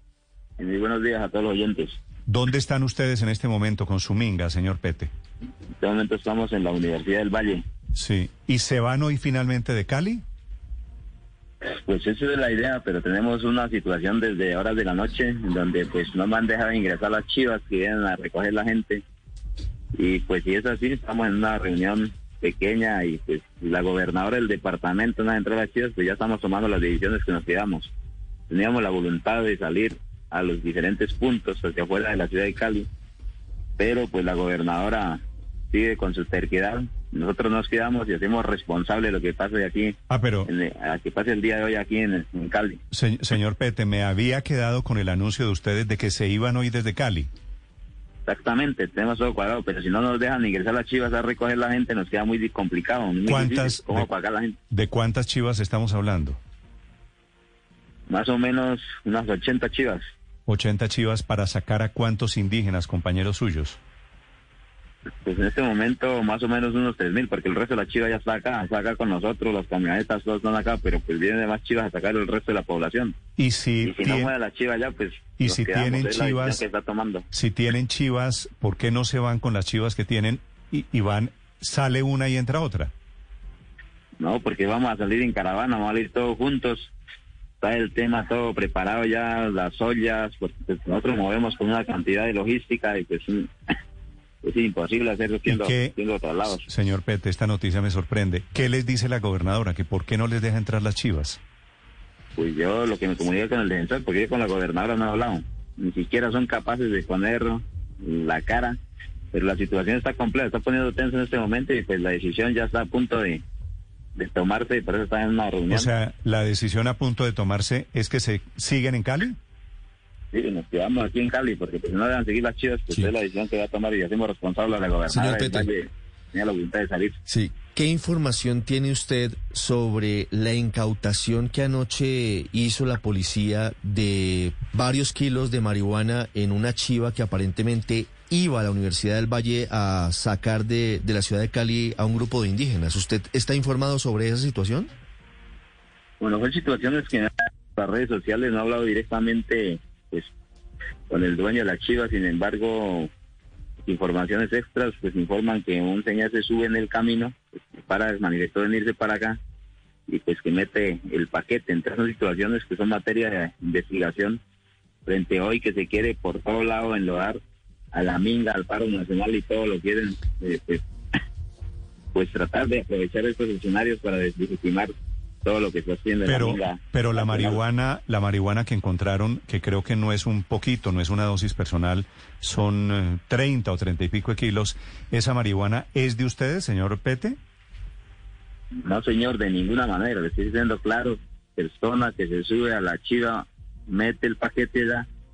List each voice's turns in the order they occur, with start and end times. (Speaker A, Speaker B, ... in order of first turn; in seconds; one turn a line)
Speaker A: 0.6-2.0
Speaker B: 2.3-5.1
Speaker A: 5.8-7.6
Speaker B: 8.0-10.2
Speaker A: 11.8-19.0
Speaker A: 19.9-27.9
Speaker A: 28.5-32.9
Speaker A: 33.8-35.2
Speaker A: 35.7-42.8
Speaker B: 40.1-40.5
Speaker B: 42.9-47.3
Speaker A: 48.3-54.5
Speaker B: 53.3-54.1
Speaker B: 54.7-56.4
Speaker A: 58.1-60.0
Speaker B: 60.5-63.8
Speaker A: 65.2-73.2
Speaker B: 73.4-74.3
Speaker A: 73.8-77.2
Speaker B: 75.4-76.6
Speaker B: 77.3-82.9
Speaker A: 84.2-86.9
Speaker A: 87.6-93.5
Speaker A: 94.4-96.7
Speaker B: 95.5-95.9
Speaker B: 96.6-101.4
Speaker A: 102.3-108.8
Speaker A: 109.3-113.4
Speaker A: 114.2-115.9
Speaker B: 115.7-119.3
Speaker A: 120.3-127.2
Speaker C: 125.1-125.7
Speaker C: 127.3-144.9
Speaker A: 146.2-150.3
Speaker A: 151.1-153.1
Speaker A: 153.8-159.4
Speaker A: 160.1-164.4
Speaker A: 165.1-167.4
Speaker A: 167.9-170.8
Speaker A: 172.1-174.9
Speaker A: 175.4-177.6
Speaker B: 176.2-187.4
Speaker A: 188.8-195.1